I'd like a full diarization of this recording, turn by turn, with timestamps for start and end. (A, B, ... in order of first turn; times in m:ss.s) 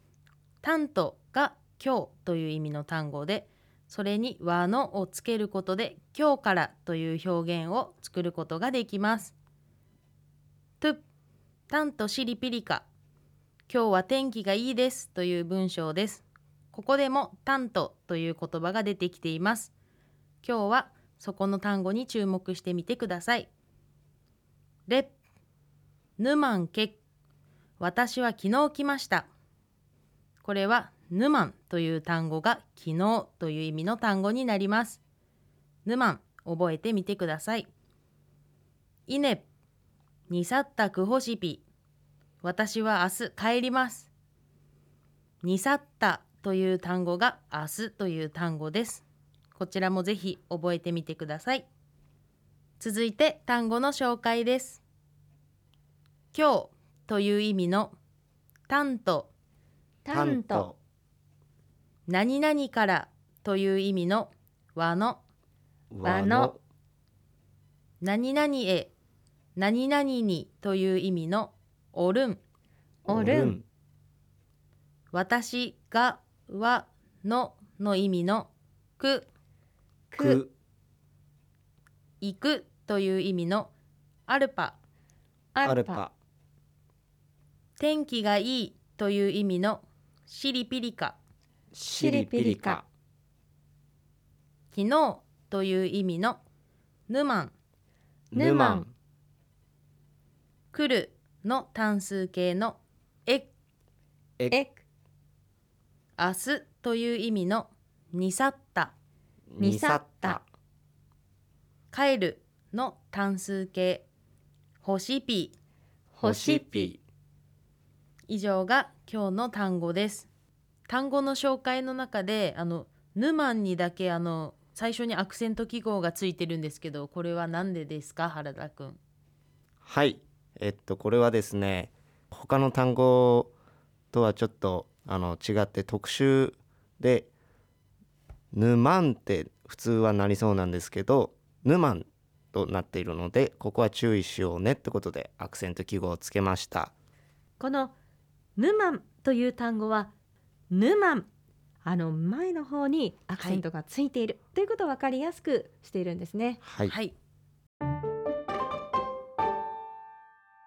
0:00.6-0:09.3 A
0:11.7-0:12.8 A
0:13.7-0:19.7 A
0:20.4-0:23.5 A
0:24.9-0:25.1 A
0:26.2-0:27.0 A
0:27.8-0:29.3 A
0:30.4-0:35.0 A
0:35.8-0:37.7 A
0:39.1-0:39.4 A
0:40.3-0:41.6 A
0:42.4-0:44.1 A
0:45.4-0:49.0 A
0:49.5-0:51.7 A
0:52.8-0:54.8 A
0:56.3-0:57.9 A
0:58.7-0:59.3 A
1:00.0-1:00.7 B
1:00.1-1:00.8 C
1:02.1-1:05.2 A
1:05.9-1:06.6 C
1:06.0-1:06.5 B
1:08.0-1:08.9 A
1:09.6-1:12.4 A
1:13.0-1:13.6 B
1:13.1-1:13.6 C
1:15.1-1:19.3 A
1:20.1-1:20.4 B
1:20.2-1:20.5 C
1:22.2-1:23.7 A
1:24.3-1:24.8 A
1:25.6-1:26.0 B
1:25.6-1:26.1 C
1:27.8-1:31.2 A
1:31.7-1:32.8 C
1:31.9-1:32.8 B
1:34.7-1:36.4 A
1:37.1-1:37.5 A
1:38.3-1:38.9 C
1:38.3-1:38.9 B
1:40.7-1:43.5 A
1:44.5-1:44.8 B
1:46.2-1:48.9 A
1:49.5-1:50.4 C
1:49.6-1:50.4 B
1:51.9-1:54.0 A
1:54.8-1:55.5 A
1:56.2-1:56.9 B
1:56.2-1:57.0 C
1:58.3-2:00.3 A
2:00.9-2:09.0 A
2:09.8-2:13.5 C
2:14.1-2:17.3 C
2:18.5-2:26.9 C
2:27.6-2:27.9 B
2:28.6-2:30.1 B
2:30.7-2:31.3 B
2:31.8-2:36.6 B
2:33.4-2:33.6 A
2:36.6-2:37.0 C
2:36.8-2:37.1 A